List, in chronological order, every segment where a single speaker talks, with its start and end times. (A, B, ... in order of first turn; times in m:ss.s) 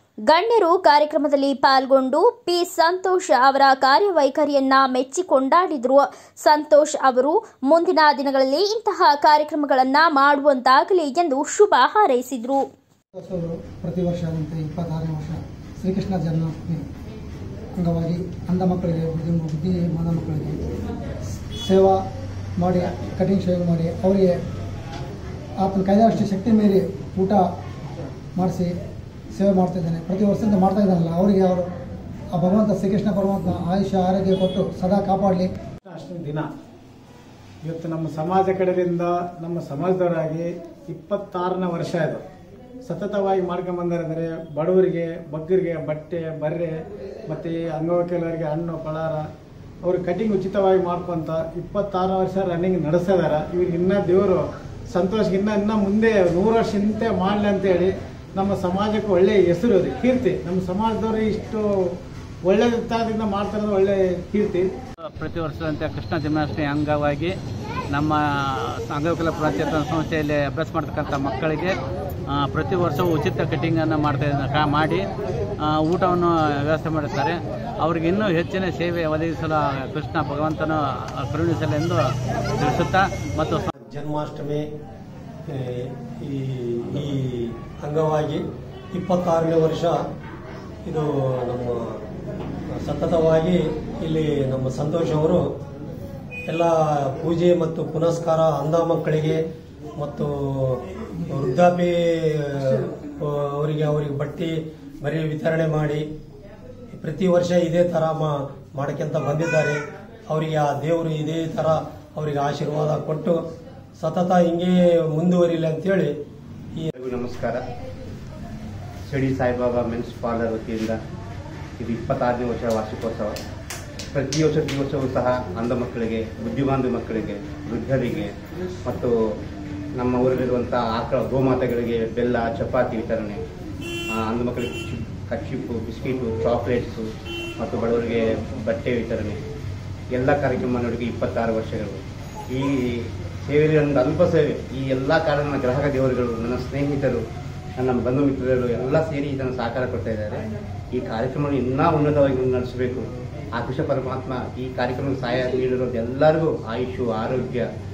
0:00.3-0:12.6 A
0:13.2-0:16.8 B
0:17.8-0:20.6 B
0:21.4-0:22.0 B
0:22.6-0:24.4 B
0:22.7-0:23.2 C
0:25.6-0:27.4 B
0:28.4-0:28.7 B
0:29.3-0:31.7 B
0:32.3-0:35.5 B
0:35.8-0:36.5 D
0:37.6-0:42.2 D
0:42.9-0:46.7 D
0:47.3-0:49.2 D
0:49.8-1:01.7 D
1:02.4-1:04.7 D
1:05.2-1:07.3 E
1:07.9-1:11.8 E
1:12.3-1:15.1 E
1:15.6-1:23.7 E
1:23.8-1:24.7 F
1:25.5-1:30.0 F
1:30.8-1:32.1 F
1:32.7-1:35.6 F
1:36.5-1:39.4 F
1:40.0-1:46.1 F
1:46.9-1:53.4 F
1:54.0-1:56.1 F
1:57.0-1:57.6 C
1:59.1-2:01.0 C
2:01.8-2:03.4 C
2:04.1-2:08.3 C
2:08.8-2:09.1 C
2:10.0-2:13.4 C
2:14.1-2:17.1 C
2:17.6-2:19.4 C
2:20.1-2:27.2 C
2:27.8-2:37.7 C